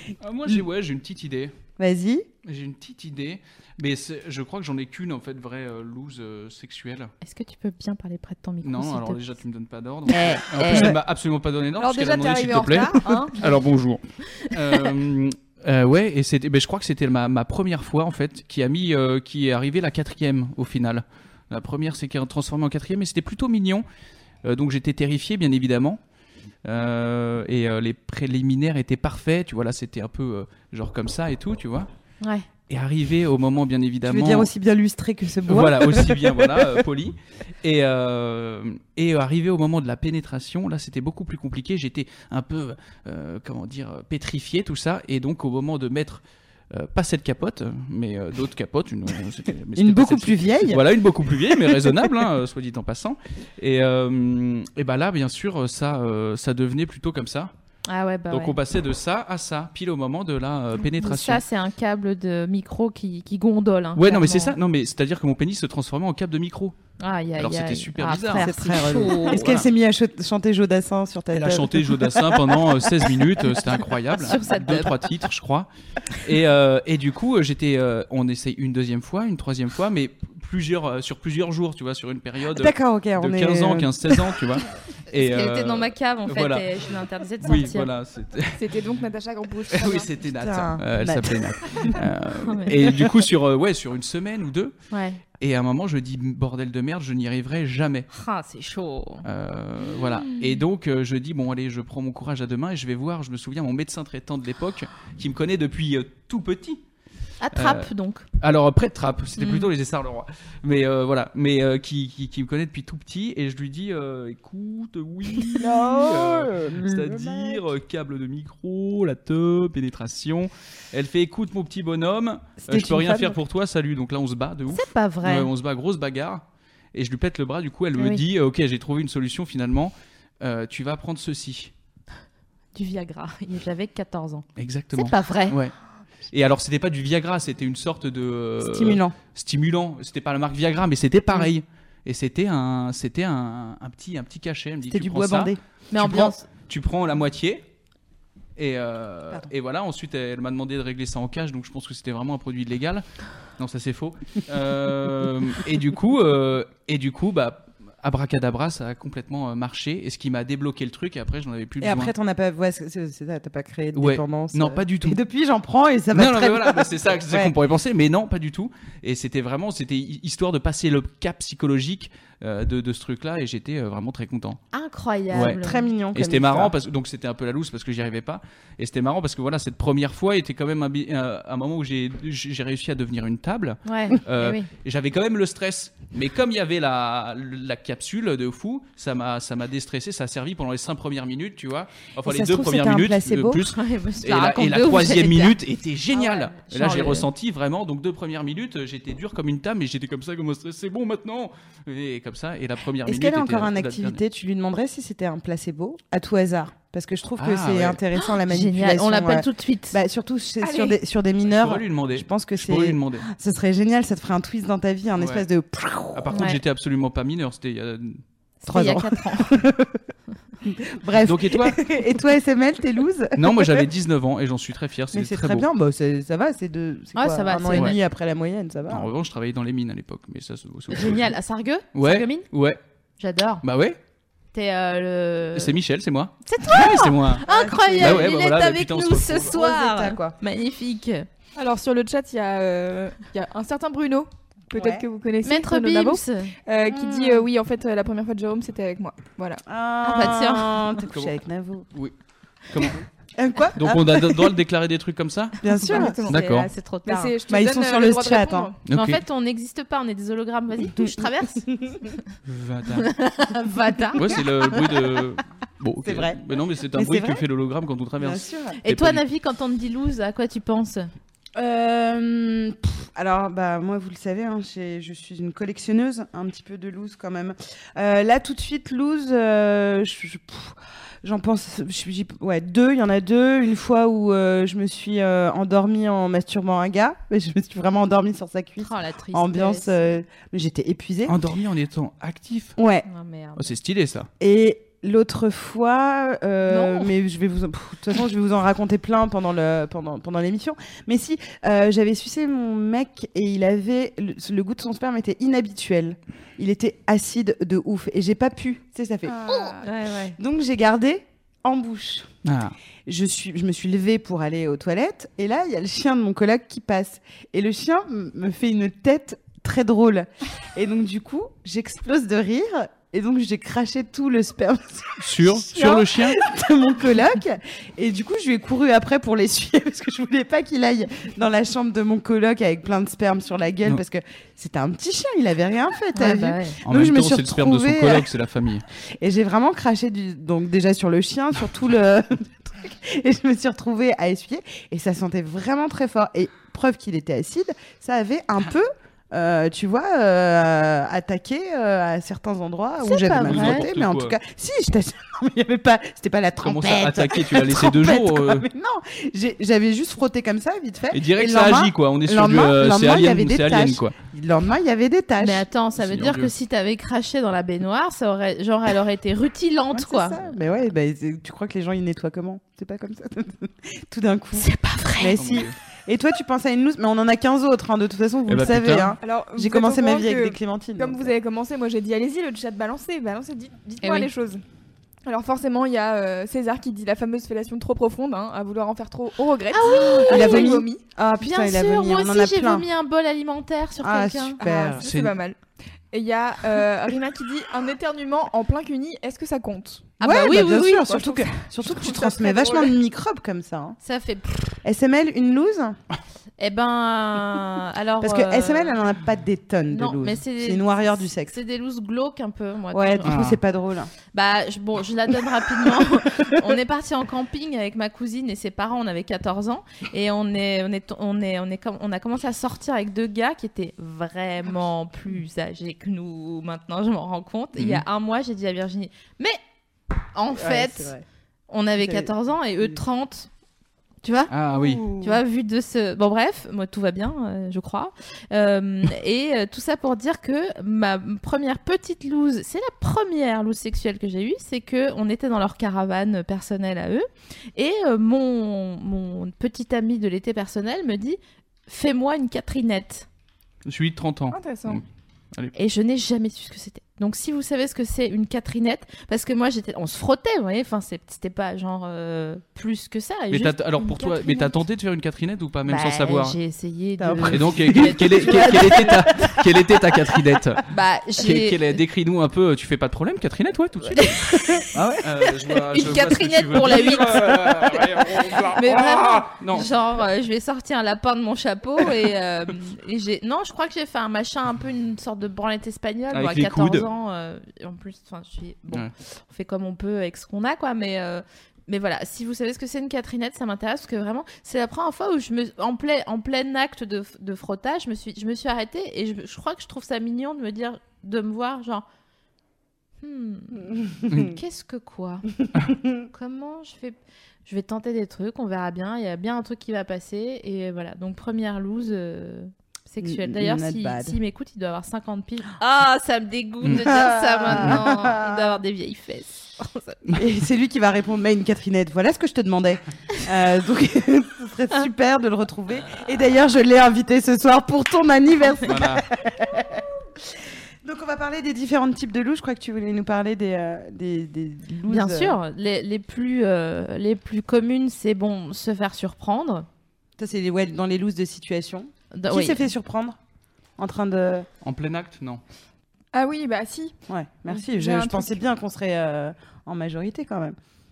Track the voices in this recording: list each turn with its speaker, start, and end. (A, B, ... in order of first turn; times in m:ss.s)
0:00.2-0:01.5 A
0:01.8-0:02.3 B
0:02.4-0:07.1 A
0:07.2-0:09.2 C
0:08.6-0:23.8 A
0:10.1-0:10.9 C
0:11.8-0:13.4 D
0:13.0-0:13.3 C
0:14.3-0:14.9 C
0:24.4-0:26.0 A
0:26.6-0:31.9 A
0:32.7-0:34.5 A
0:34.0-0:36.7 B
0:35.5-0:57.5 A
0:49.8-0:50.8 B
0:51.4-0:52.1 B
0:57.9-0:58.6 C
0:58.3-1:01.4 A
1:00.8-1:04.6 C
1:03.9-1:06.8 A
1:07.0-1:09.6 C
1:07.4-1:08.5 A
1:08.3-1:13.8 B
1:09.3-1:09.6 A
1:11.3-1:26.7 A
1:14.1-1:15.0 C
1:22.5-1:24.4 B
1:25.1-1:27.9 C
1:27.4-1:28.7 A
1:28.6-1:30.1 D
1:29.7-1:34.7 A
1:30.4-1:32.0 B
1:32.4-1:32.8 C
1:34.9-1:35.2 C
1:35.3-1:38.1 A
1:38.1-1:39.2 C
1:39.2-1:46.8 A
1:40.2-1:40.6 C
1:47.4-1:48.2 C
1:47.5-2:11.7 A
1:49.4-1:49.7 C
1:55.6-1:57.6 B
2:02.6-2:03.4 B
2:04.7-2:05.5 C
2:08.0-2:08.2 C
2:12.7-2:15.6 C
2:14.6-2:15.7 A
2:16.3-2:27.6 A
2:18.6-2:19.2 B
2:24.9-2:25.6 B
2:25.9-2:26.5 C
2:28.6-2:33.0 A
2:33.6-2:42.1 A
2:41.8-2:47.5 B
2:43.9-2:45.2 A
2:46.1-2:54.6 A
2:54.7-2:55.9 C
2:55.3-2:55.6 A
2:55.4-2:56.7 B
2:56.1-3:24.2 A
3:03.8-3:04.7 C
3:12.2-3:13.6 B
3:13.6-3:15.6 C
3:16.1-3:17.3 C
3:23.0-3:36.3 B
3:27.4-3:28.0 A
3:28.2-3:30.0 C
3:30.6-3:31.0 D
3:31.4-3:33.3 A
3:35.2-3:35.4 A
3:36.1-3:38.2 A
3:36.3-3:36.6 C
3:38.6-3:39.6 C
3:38.7-3:40.0 B
3:40.6-3:43.9 B
3:41.2-3:41.8 A
3:43.4-3:45.7 A
3:45.1-3:49.1 B
3:47.1-3:48.0 C
3:48.9-3:51.3 A
3:50.9-3:52.5 C
3:51.9-3:52.8 A
3:53.2-3:53.6 C
3:53.6-3:54.0 A
3:54.5-3:55.7 C
3:55.5-3:57.4 A
3:56.4-4:01.3 C
3:57.4-3:58.3 B
3:58.0-3:59.5 A
3:59.4-4:00.4 B
4:01.5-4:09.6 D
4:04.7-4:05.0 B
4:05.4-4:06.5 C
4:06.8-4:07.4 B
4:09.6-4:11.9 B
4:10.0-4:10.9 C
4:11.1-4:11.3 A
4:12.7-4:13.0 A
4:12.8-4:14.6 B
4:13.8-4:15.6 A
4:15.6-4:16.2 B
4:15.7-4:17.3 C
4:15.8-4:16.4 D
4:16.3-4:16.7 A
4:17.0-4:18.8 D
4:17.5-4:18.7 B
4:18.8-4:19.2 A
4:18.9-4:22.1 C
4:21.0-4:22.0 B
4:22.4-4:23.1 A
4:22.9-4:24.4 C
4:24.2-4:29.2 A
4:24.3-4:24.9 B
4:26.0-4:26.4 B
4:26.9-4:27.4 B
4:28.2-4:28.8 B
4:28.8-4:31.1 C
4:31.6-4:51.4 B
4:48.8-4:50.0 C
4:51.3-4:52.8 A
4:52.8-4:53.1 B
4:53.0-4:53.7 C
4:53.6-4:54.3 A
4:54.4-5:09.8 B
4:56.7-4:57.1 C
5:09.3-5:09.9 D
5:09.5-5:10.4 C
5:10.4-5:12.3 B
5:12.4-5:12.7 A
5:13.0-5:38.3 B
5:25.2-5:26.4 A
5:36.1-5:36.8 C
5:36.8-5:38.8 A
5:39.2-6:05.7 B
5:53.0-5:53.8 C
5:53.3-5:54.4 A
5:56.6-5:58.6 A
6:01.1-6:04.1 A
6:05.4-6:10.6 C
6:06.0-6:06.5 A
6:09.9-6:14.7 B
6:14.5-6:15.4 C
6:15.2-6:21.3 B
6:15.3-6:15.7 A
6:18.5-6:19.2 A
6:19.2-6:24.6 D
6:24.0-6:24.3 C
6:25.2-6:31.0 D
6:29.7-6:30.7 C
6:30.2-6:32.9 B
6:31.4-6:34.6 C
6:34.0-6:35.0 B
6:34.6-6:35.6 D
6:35.0-6:35.4 A
6:36.1-6:40.2 D
6:40.2-6:41.1 C
6:40.2-6:44.0 B
6:41.0-6:42.9 D
6:44.0-6:44.8 C
6:44.8-6:46.0 B
6:46.6-6:49.0 C
6:48.2-6:51.5 B
6:49.9-6:53.4 C
6:52.9-6:54.1 B
6:53.2-6:53.6 A
6:54.3-7:09.6 C
6:55.8-6:56.5 B
7:07.8-7:08.0 A
7:10.3-7:11.1 C
7:10.5-7:11.2 B
7:11.7-7:13.5 C
7:12.0-7:13.0 B
7:14.2-7:14.5 C
7:14.5-7:15.0 A
7:15.1-7:33.3 C
7:33.8-7:35.7 A
7:34.5-7:35.0 D
7:35.7-7:44.7 C
7:43.5-7:46.6 A
7:45.8-7:49.6 C
7:47.2-7:49.8 B
7:47.4-7:54.4 A
7:50.9-7:52.0 C
7:54.0-7:54.9 C
7:54.7-7:55.2 B
7:55.0-7:59.9 A
7:55.4-8:22.0 C
8:06.3-8:07.1 A
8:23.2-8:25.5 C
8:24.3-8:24.6 A
8:26.3-8:40.4 C
8:33.2-8:34.4 B
8:36.8-8:37.1 A
8:36.9-8:38.8 B
8:40.3-8:55.6 B
8:48.8-8:49.2 A
8:55.1-8:59.9 C
9:00.4-9:03.4 B
9:02.3-9:02.9 C
9:04.0-9:04.7 B
9:04.8-9:05.6 A
9:06.3-9:07.1 D
9:07.3-9:10.8 B
9:07.7-9:08.6 D